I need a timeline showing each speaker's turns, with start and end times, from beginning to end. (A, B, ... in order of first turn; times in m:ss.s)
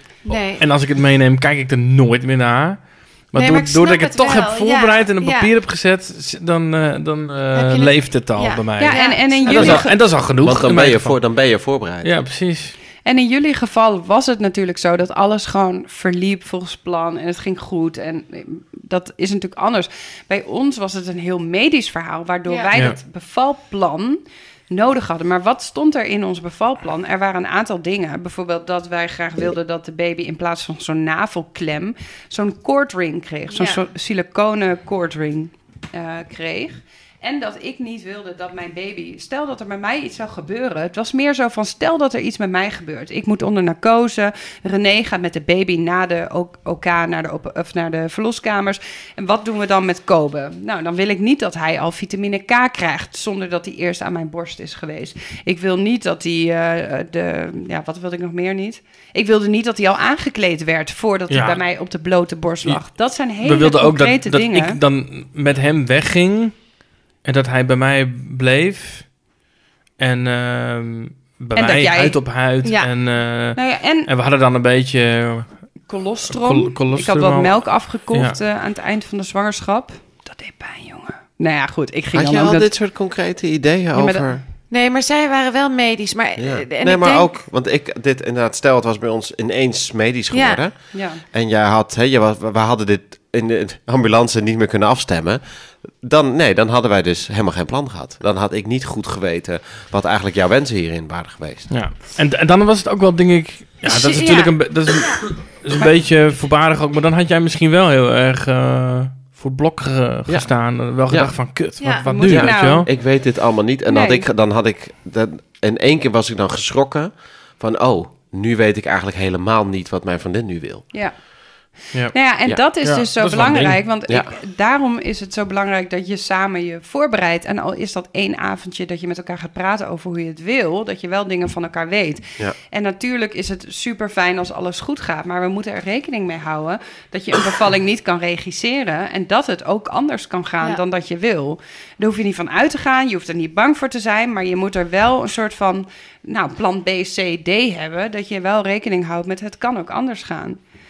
0:00.2-0:00.6 A
0:00.6-0:11.2 B
0:03.4-0:05.5 A
0:07.5-0:09.9 A
0:08.8-0:09.9 C
0:10.4-0:12.1 D
0:12.0-0:12.8 B
0:13.0-1:04.8 C
0:33.5-0:33.8 A
1:01.3-1:01.6 B
1:03.4-1:06.6 B
1:07.2-1:09.1 B
1:10.0-1:15.6 B
1:11.5-1:12.2 C
1:12.6-1:12.9 A
1:13.5-1:14.1 C
1:15.9-1:22.7 C
1:16.3-1:18.4 B
1:22.1-1:24.4 D
1:23.9-1:24.3 C
1:24.7-1:27.4 A
1:26.4-1:35.4 D
1:30.3-1:30.6 A
1:30.9-1:31.2 C
1:36.0-1:41.7 D
1:41.7-1:52.9 B
1:43.8-1:45.9 A
1:51.8-1:52.0 A
1:52.0-1:52.9 C
1:52.3-2:00.8 D
1:53.9-1:54.2 C
2:02.1-2:30.6 C
2:02.8-2:03.8 B